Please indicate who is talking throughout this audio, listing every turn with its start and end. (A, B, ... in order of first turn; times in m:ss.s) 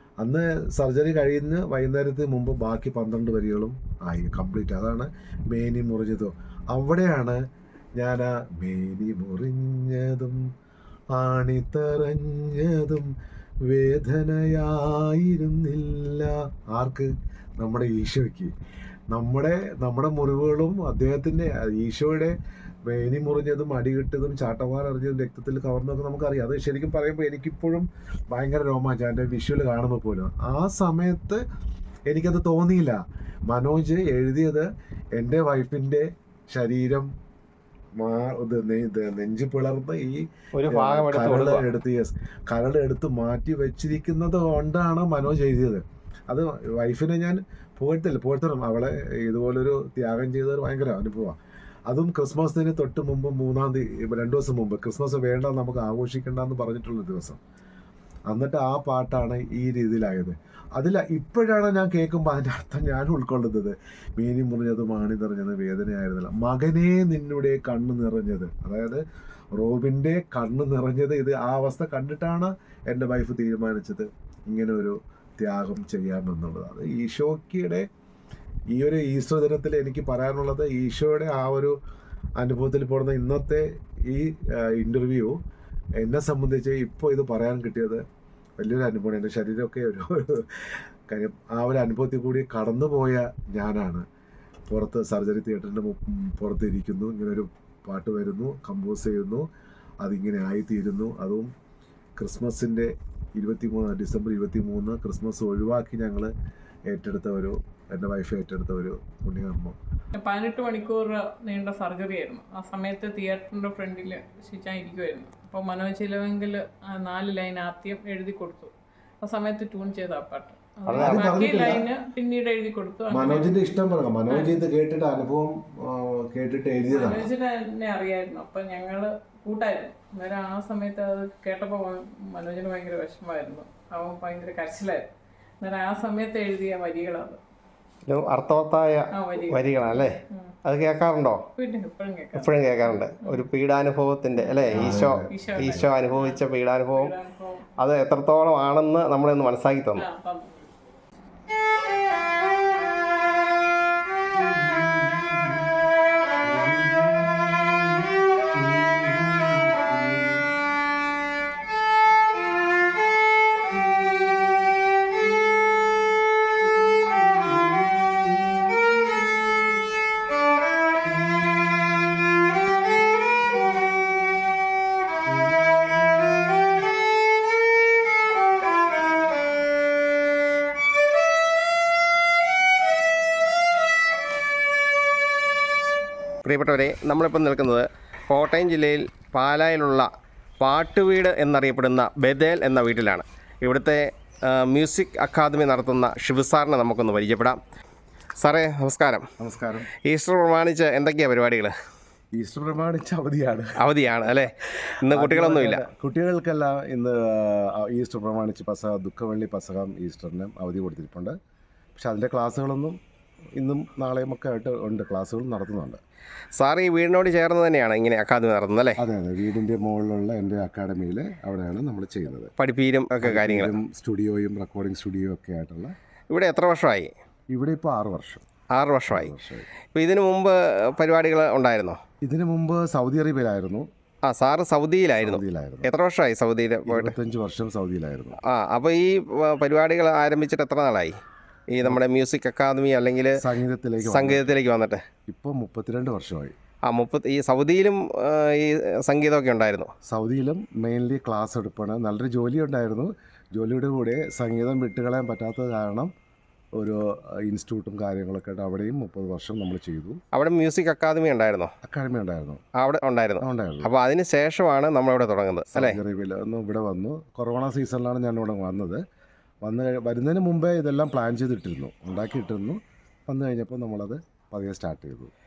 0:00.2-0:07.4 A
0:08.0-0:10.4 A
0:11.1-0:13.1 A
0:13.7-0:18.5 A
0:19.1-0:31.4 A
0:32.1-0:37.1 A
0:38.0-0:51.4 A
0:40.5-0:41.6 B
0:51.9-0:57.4 A
0:58.3-1:09.0 A
1:09.6-1:17.9 A
1:18.7-1:21.8 A
1:22.4-1:25.4 A
1:26.0-1:28.0 A
1:28.6-1:34.1 A
1:34.7-1:39.5 A
1:40.0-1:41.5 A
1:42.2-1:46.3 A
1:46.9-1:49.8 A
1:50.1-2:03.6 C
2:00.9-2:01.8 B
2:00.9-2:01.9 A
2:03.1-2:07.3 A
2:04.3-2:04.6 C
2:06.9-2:15.1 C
2:15.6-2:17.4 C
2:18.1-2:21.4 B
2:19.1-2:20.6 C
2:21.6-2:23.5 C
2:22.4-2:27.1 B
2:24.4-2:27.6 C
2:24.7-2:25.7 A
2:27.8-2:30.1 B
2:30.0-2:30.7 C
2:36.5-2:37.5 A
2:38.6-2:39.7 A
3:06.4-3:10.1 B
3:10.6-3:17.6 B
3:18.4-3:19.3 B
3:19.4-3:19.9 A
3:20.0-3:21.7 B
3:22.3-3:24.5 A
3:23.8-3:25.8 B
3:25.1-3:31.4 A
3:32.0-3:33.0 A
3:33.6-3:36.0 A
3:36.6-3:39.0 B
3:39.0-3:42.5 A
3:42.6-3:43.7 B
3:43.2-3:45.9 A
3:46.3-3:47.1 B
3:47.5-3:48.4 A
3:48.7-3:49.3 B
3:49.1-3:49.7 A
3:49.9-3:52.0 B
3:52.2-3:53.9 A
3:54.3-3:57.2 B
3:55.2-3:55.9 A
3:56.9-3:58.4 A
3:58.4-4:01.2 B
4:01.7-4:03.4 B
4:03.4-4:04.6 A
4:04.0-4:05.0 B
4:05.3-4:06.6 A
4:06.9-4:09.9 B
4:10.1-4:16.1 A
4:16.8-4:20.2 A
4:20.3-4:21.7 B
4:21.8-4:22.6 A
4:22.8-4:26.0 B
4:23.4-4:23.9 A
4:25.7-4:29.0 A
4:29.6-4:35.3 A